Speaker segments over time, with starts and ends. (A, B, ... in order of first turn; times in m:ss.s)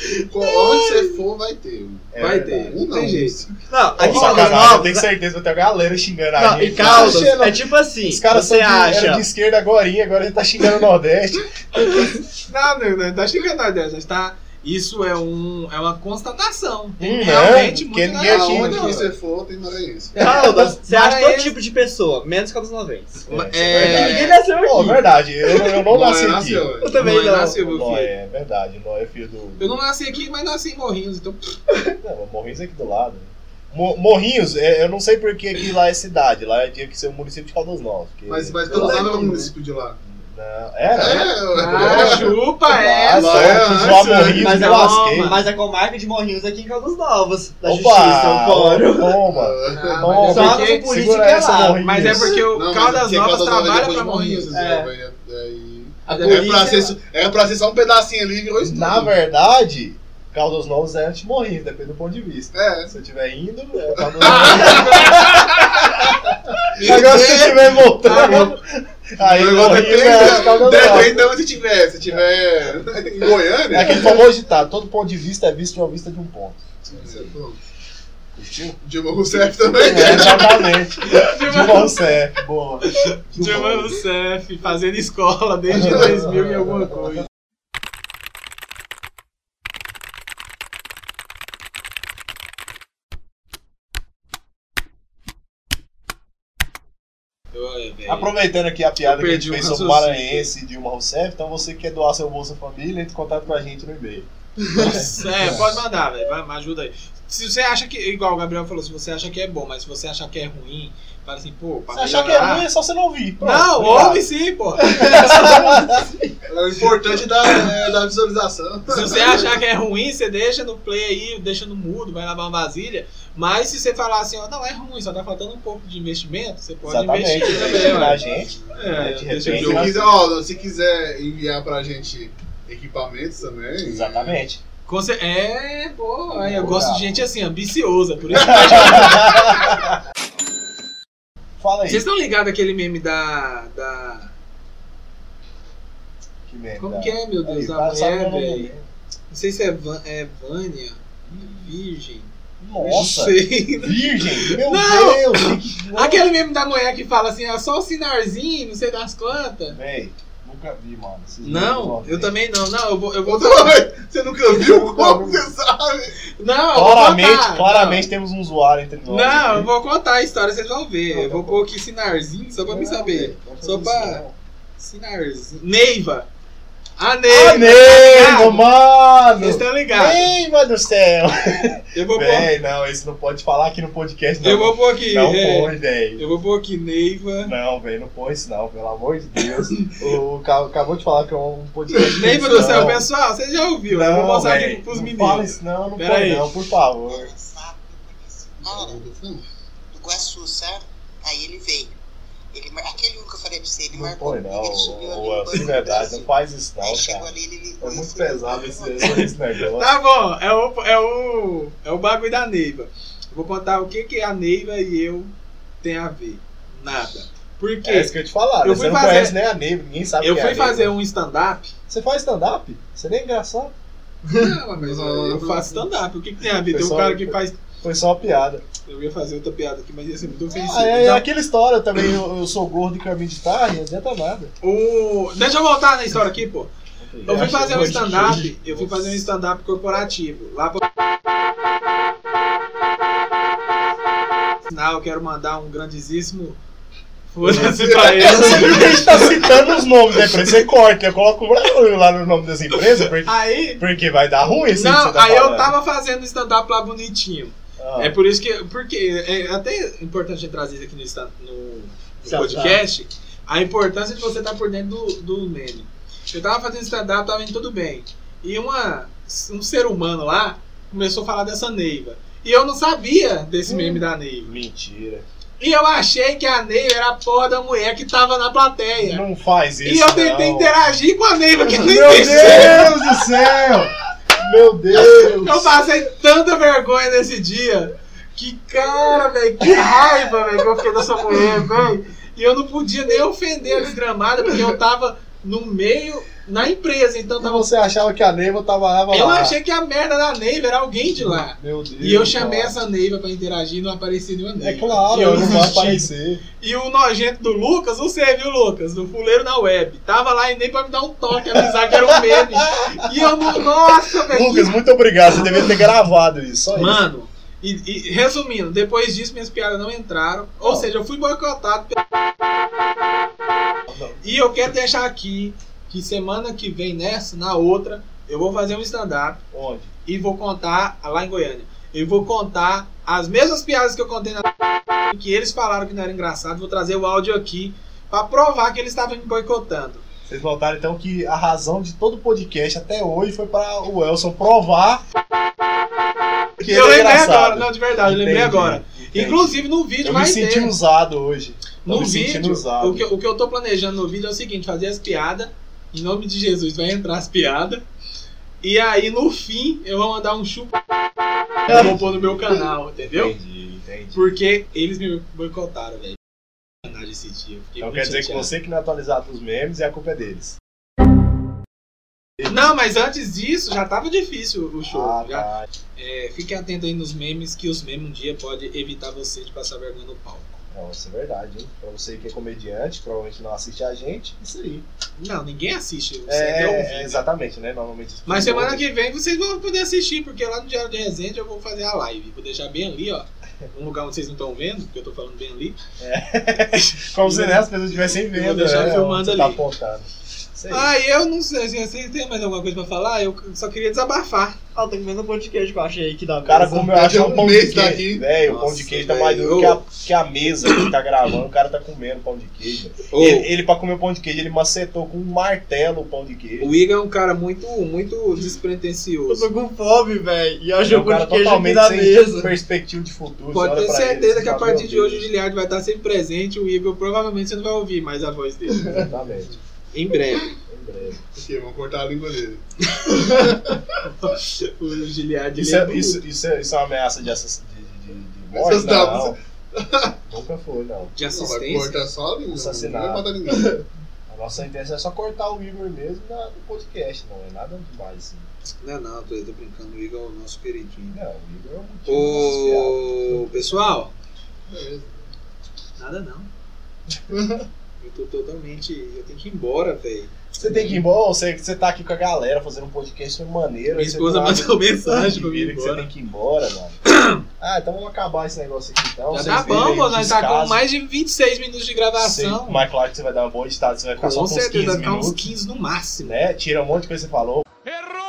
0:00.2-0:03.6 A
0:00.4-0:01.0 B
0:02.1-0:02.7 C
0:02.2-0:03.5 B
0:03.7-0:05.1 D
0:04.0-0:12.1 C
0:04.1-0:04.9 B
0:06.4-0:09.3 D
0:12.5-0:19.1 B
0:17.0-0:19.1 C
0:18.2-0:20.2 A
0:20.2-0:25.8 D
0:20.8-0:21.6 B
0:23.3-0:26.7 C
0:23.3-0:24.4 B
0:25.9-0:27.0 A
0:26.8-0:27.6 D
0:27.0-0:28.1 B
0:27.5-0:29.8 C
0:29.6-0:31.5 B
0:32.0-0:39.1 C
0:38.3-0:40.0 A
0:38.7-0:39.5 D
0:40.0-0:45.5 C
0:40.9-0:42.4 A
0:41.5-0:43.6 B
0:43.1-0:44.5 A
0:44.4-0:49.2 D
0:44.4-0:45.4 B
0:47.6-0:52.4 C
0:49.3-0:50.4 A
0:49.7-0:50.9 B
0:50.3-0:52.2 D
0:51.5-0:54.5 B
0:52.5-0:59.1 A
0:54.5-0:54.9 D
0:56.1-0:56.8 B
0:56.1-0:56.9 D
0:58.6-1:11.3 C
1:02.5-1:02.9 A
1:04.0-1:04.9 A
1:04.3-1:06.0 B
1:06.8-1:08.6 B
1:06.9-1:07.5 D
1:09.2-1:14.2 A
1:13.7-1:17.4 C
1:16.9-1:17.7 A
1:18.4-1:18.8 C
1:18.8-1:20.6 A
1:19.7-1:24.0 C
1:21.0-1:22.1 B
1:22.9-1:27.3 B
1:25.7-1:26.7 C
1:37.5-1:38.3 B
1:38.1-1:45.8 C
1:39.0-1:40.5 B
1:44.7-1:52.7 B
1:51.9-1:54.3 C
1:53.4-1:55.0 B
1:54.8-1:56.3 D
1:55.0-1:56.0 C
1:56.5-1:59.5 A
1:58.9-2:08.2 B
2:06.8-2:10.2 C
2:07.6-2:08.7 A
2:08.7-2:10.1 B
2:09.4-2:14.4 A
2:13.8-2:14.6 C
2:14.9-2:19.4 B
2:16.3-2:17.3 C
2:18.3-2:20.0 C
2:21.6-2:22.1 C
2:21.9-2:24.3 B
2:26.5-2:28.9 C
2:26.8-2:28.7 B
2:29.3-2:39.8 B
2:31.3-2:31.8 C
2:32.6-2:36.3 C
2:39.7-2:42.3 C
2:41.4-2:43.8 B
2:43.2-2:46.2 A
2:44.5-2:45.5 C
2:46.4-2:48.1 B
2:46.7-2:49.7 C
2:49.1-2:54.2 B
2:51.1-2:51.7 C
2:52.6-2:54.4 C
2:54.8-2:56.3 B
2:57.0-2:58.6 B
2:57.3-3:06.2 C
2:59.4-3:00.3 B
3:01.9-3:02.5 B
3:04.4-3:07.5 B
3:07.4-3:13.1 C
3:12.2-3:16.5 B
3:13.9-3:17.3 C
3:17.1-3:19.1 E
3:18.6-3:19.4 A
3:19.9-3:22.0 E
3:22.5-3:29.1 E
3:23.9-3:30.0 C
3:29.0-3:39.4 B
3:37.8-3:40.9 C
3:40.2-3:41.7 B
3:41.9-3:43.7 C
3:44.3-3:47.6 B
3:44.8-3:45.9 A
3:46.6-3:48.6 C
3:48.9-3:51.2 B
3:50.5-3:54.5 C
3:54.6-3:56.7 B
3:57.0-3:59.3 C
3:57.2-4:00.8 B
4:04.7-4:06.6 B
4:07.3-4:09.5 B
4:07.4-4:15.7 C
4:13.2-4:13.8 B
4:14.5-4:34.6 B
4:17.8-4:18.2 C
4:22.2-4:22.8 D
4:33.7-4:35.2 C
4:35.6-4:39.2 B
4:39.0-4:40.8 C
4:39.8-4:43.0 B
4:41.6-4:45.8 C
4:45.0-4:57.7 B
4:49.6-4:49.9 C
4:57.4-4:59.6 C
4:59.1-5:06.1 B
5:01.3-5:02.8 C
5:04.6-5:06.4 C
5:06.6-5:14.8 B
5:11.6-5:13.3 C
5:14.3-5:17.1 C
5:16.7-5:22.0 B
5:20.6-5:20.9 C
5:23.9-5:24.2 C
5:24.2-5:29.4 B
5:29.5-5:29.9 C
5:30.1-5:34.5 B
5:35.1-5:40.0 B
5:40.3-5:45.0 C
5:46.6-5:53.1 C
5:46.7-5:50.8 B
5:51.8-5:57.8 B
5:58.6-6:00.8 B
6:01.7-6:03.3 B
6:01.7-6:04.2 C
6:04.1-6:06.2 B
6:06.8-6:08.5 B
6:07.8-6:10.6 C
6:12.4-6:20.6 B
6:14.9-6:15.7 C
6:20.7-6:24.9 C
6:25.2-6:27.3 B
6:26.3-6:28.8 C
6:28.3-6:35.8 B
6:36.0-6:40.9 C
6:36.7-6:39.6 B
6:40.7-6:44.6 B
6:44.8-6:47.1 D
6:46.4-6:56.8 C
6:46.9-6:48.3 A
6:48.4-6:49.8 B
6:53.1-6:53.5 B
6:56.6-6:59.5 B
6:59.3-7:02.5 D
7:00.8-7:05.3 C
7:03.5-7:09.1 B
7:08.9-7:09.5 C
7:08.9-7:09.5 A
7:09.9-7:10.6 B
7:10.6-7:11.2 C
7:11.3-7:12.6 A
7:12.9-7:16.2 B
7:13.3-7:13.8 A
7:15.6-7:19.4 C
7:18.5-7:20.1 A
7:20.3-7:21.1 C
7:21.1-7:22.0 B
7:21.2-7:23.8 A
7:22.5-7:23.3 C
7:24.3-7:28.5 C
7:28.8-7:31.2 B
7:31.1-7:33.4 C
7:32.1-7:34.1 B
7:34.7-7:35.3 A
7:36.0-7:36.5 B
7:38.0-7:41.0 B
7:40.6-7:47.0 C
7:43.9-7:46.1 B
7:47.0-7:47.4 B
7:47.5-7:50.8 C
7:49.3-7:52.8 B
7:52.2-7:55.5 C
7:54.2-7:56.4 B
7:56.2-7:57.6 C